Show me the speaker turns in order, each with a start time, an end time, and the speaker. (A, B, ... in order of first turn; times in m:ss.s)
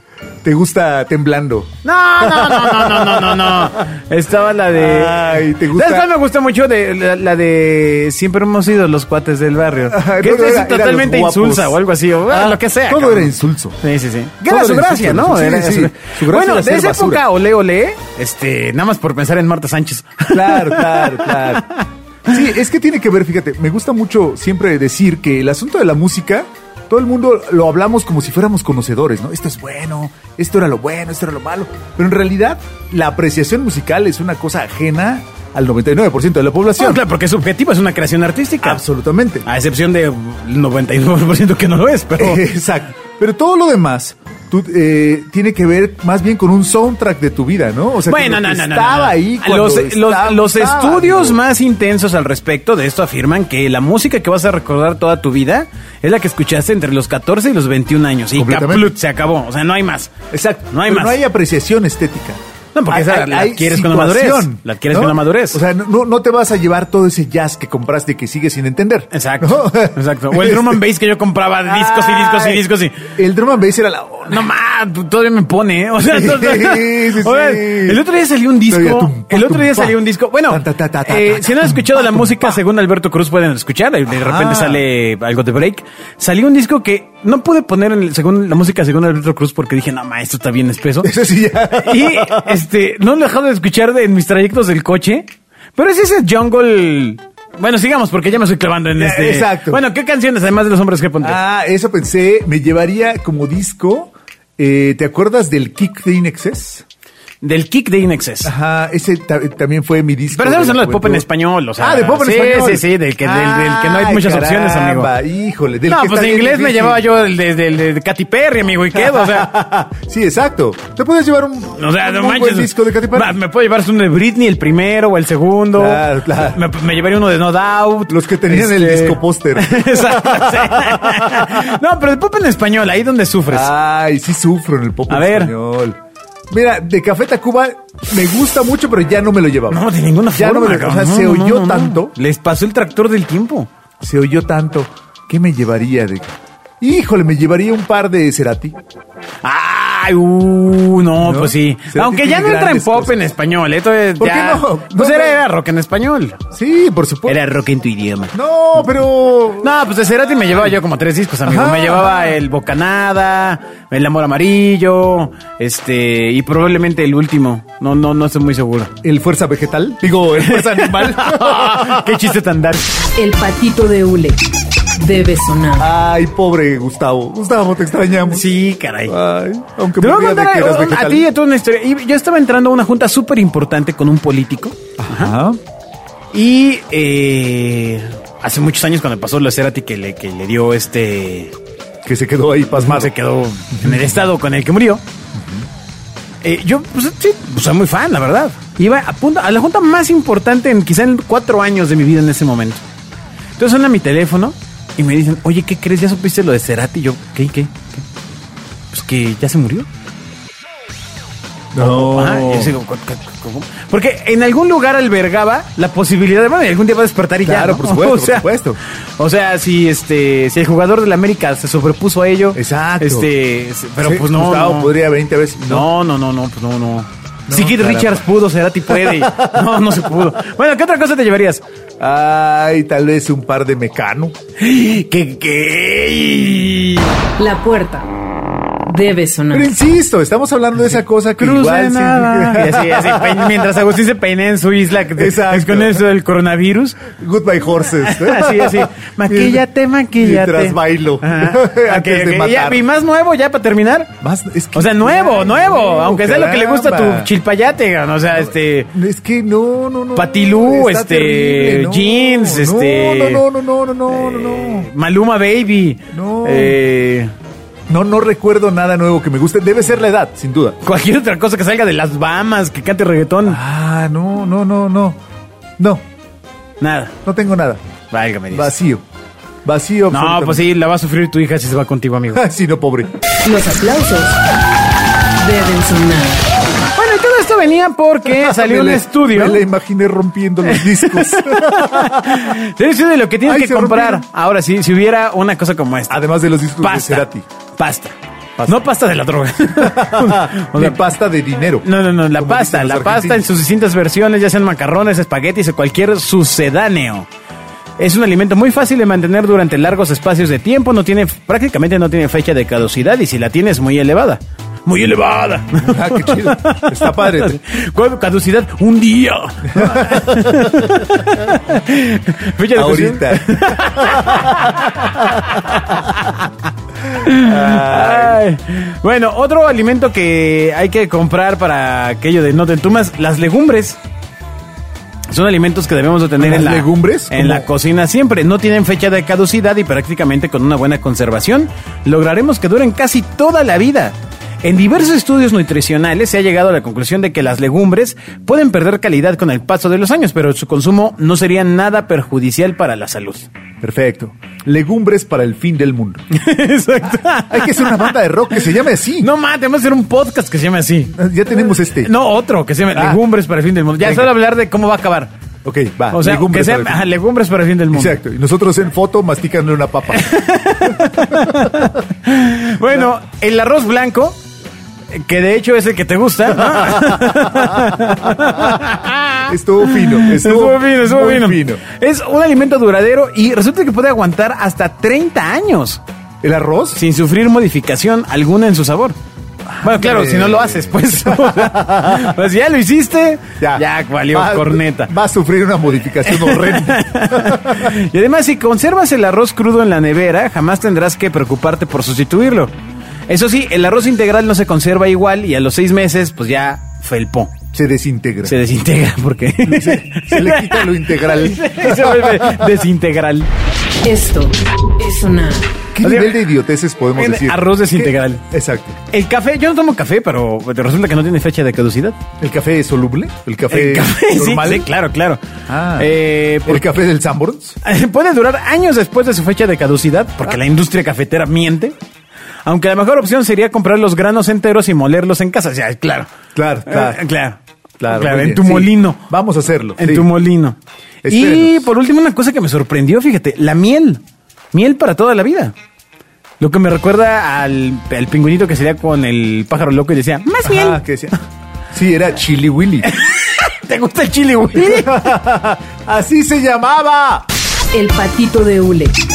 0:00.4-0:03.9 A
0:01.8-0:22.4 B
0:04.7-0:06.1 A
0:09.9-0:13.8 A
0:14.4-0:17.2 A
0:20.3-0:21.6 A
0:22.3-0:37.0 A
0:36.8-0:38.8 B
0:38.6-0:39.5 A
0:39.4-0:42.4 B
0:42.2-0:51.4 A
0:48.1-1:00.1 B
0:58.3-0:58.9 A
1:00.3-1:10.8 A
1:00.7-1:01.2 B
1:02.7-1:05.6 B
1:09.1-1:13.1 B
1:11.6-1:14.4 A
1:14.3-1:31.1 B
1:16.0-1:18.0 A
1:18.7-1:22.5 A
1:24.1-1:24.8 A
1:31.0-1:32.6 A
1:31.7-1:41.4 B
1:39.0-1:39.8 A
1:41.2-1:46.8 A
1:47.4-1:48.5 B
1:48.4-1:51.2 A
1:50.3-1:55.1 B
1:51.8-1:57.0 A
1:55.9-1:59.5 B
1:58.9-2:03.4 A
2:01.8-2:13.7 B
2:05.7-2:06.6 A
2:08.1-2:11.7 A
2:13.5-2:16.0 A
2:15.1-2:15.5 B
2:16.5-2:22.1 A
2:19.7-2:23.7 B
2:24.0-2:28.8 A
2:29.4-2:36.4 B
2:31.2-2:33.2 A
2:34.2-2:35.4 A
2:36.5-2:37.4 A
2:37.3-2:38.3 B
2:38.3-2:39.8 A
2:39.6-2:48.9 B
2:41.4-2:42.4 A
2:49.0-2:52.2 A
2:50.4-2:52.9 B
2:53.2-2:54.4 C
2:55.0-2:55.9 C
2:55.8-2:58.5 A
2:58.3-2:59.2 B
2:59.0-3:01.3 A
3:00.0-3:05.3 B
3:05.0-3:05.6 A
3:06.3-3:11.5 B
3:12.0-3:13.1 A
3:12.8-3:15.0 B
3:13.7-3:14.2 A
3:15.3-3:15.7 A
3:16.4-3:22.8 B
3:23.6-3:28.0 B
3:28.9-3:29.9 B
3:31.7-3:32.8 A
3:31.8-3:38.5 B
3:37.4-3:38.8 A
3:39.2-3:44.9 B
3:42.5-3:43.3 A
3:44.0-3:45.9 A
3:45.6-3:51.6 B
3:47.5-3:48.3 A
3:48.9-3:49.7 A
3:52.0-3:54.4 A
3:54.6-3:57.2 B
3:57.4-3:58.1 C
3:58.8-3:59.7 C
3:59.5-4:03.7 A
4:01.4-4:07.1 B
4:05.1-4:06.0 A
4:07.1-4:09.6 A
4:08.0-4:14.1 B
4:10.1-4:12.8 A
4:14.2-4:17.3 A
4:14.7-4:18.9 B
4:18.3-4:24.9 A
4:20.1-4:23.4 B
4:24.1-4:27.3 B
4:26.1-4:26.8 A
4:27.9-4:30.8 A
4:30.8-4:33.6 B
4:33.4-4:35.2 A
4:36.8-4:37.1 B
4:37.2-4:37.8 A
4:38.1-4:38.7 B
4:38.5-4:39.0 A
4:39.6-4:40.6 A
4:40.1-4:42.4 B
4:42.3-4:43.1 A
4:43.4-4:44.4 C
4:45.4-4:46.4 C
4:46.9-4:49.6 B
4:48.3-4:52.5 A
4:50.6-4:56.2 B
4:53.4-4:54.2 A
4:56.1-4:57.4 A
4:56.8-4:57.2 B
4:57.8-4:58.1 B
4:58.6-5:01.0 B
4:59.8-5:03.4 A
5:01.8-5:07.3 B
5:08.0-5:26.5 B
5:15.8-5:17.6 A
5:19.7-5:20.7 A
5:22.7-5:26.1 A
5:27.0-5:28.4 A
5:27.2-5:34.0 B
5:35.3-5:53.5 B
5:36.4-5:37.7 A
5:53.8-5:56.2 A
5:56.3-5:58.6 B
5:57.5-5:59.3 A
5:59.2-6:01.2 B
6:01.1-6:02.1 A
6:02.0-6:05.3 B
6:02.9-6:03.2 A
6:04.0-6:04.3 A
6:05.6-6:07.1 A
6:06.1-6:08.2 B
6:07.9-6:10.3 A
6:10.1-6:14.4 B
6:10.8-6:11.8 A
6:15.1-6:26.0 B
6:16.6-6:18.0 A
6:19.4-6:21.8 A
6:26.4-6:27.0 A
6:26.9-6:29.2 B
6:29.7-6:32.4 A
6:29.8-6:35.1 B
6:33.6-6:37.9 A
6:36.2-6:42.7 B
6:43.3-6:47.6 B
6:47.7-6:48.6 A
6:48.4-6:53.5 B
6:49.6-6:52.7 A
6:54.0-6:55.7 C
6:55.9-6:59.0 A
6:56.0-6:56.4 B
6:57.1-6:58.4 B
6:59.1-7:02.2 B
7:02.4-7:04.9 A
7:03.7-7:05.4 B
7:05.7-7:07.8 A
7:06.0-7:06.9 B
7:07.8-7:11.9 B
7:12.6-7:16.3 B
7:16.5-7:17.2 A
7:16.9-7:19.2 B
7:18.0-7:20.3 A
7:20.0-7:24.2 B
7:21.2-7:21.9 A
7:24.7-7:25.7 B
7:26.6-7:31.0 B
7:30.6-7:31.4 A
7:31.9-7:33.1 A
7:33.0-7:35.3 B
7:34.7-7:37.4 A
7:37.9-7:39.2 C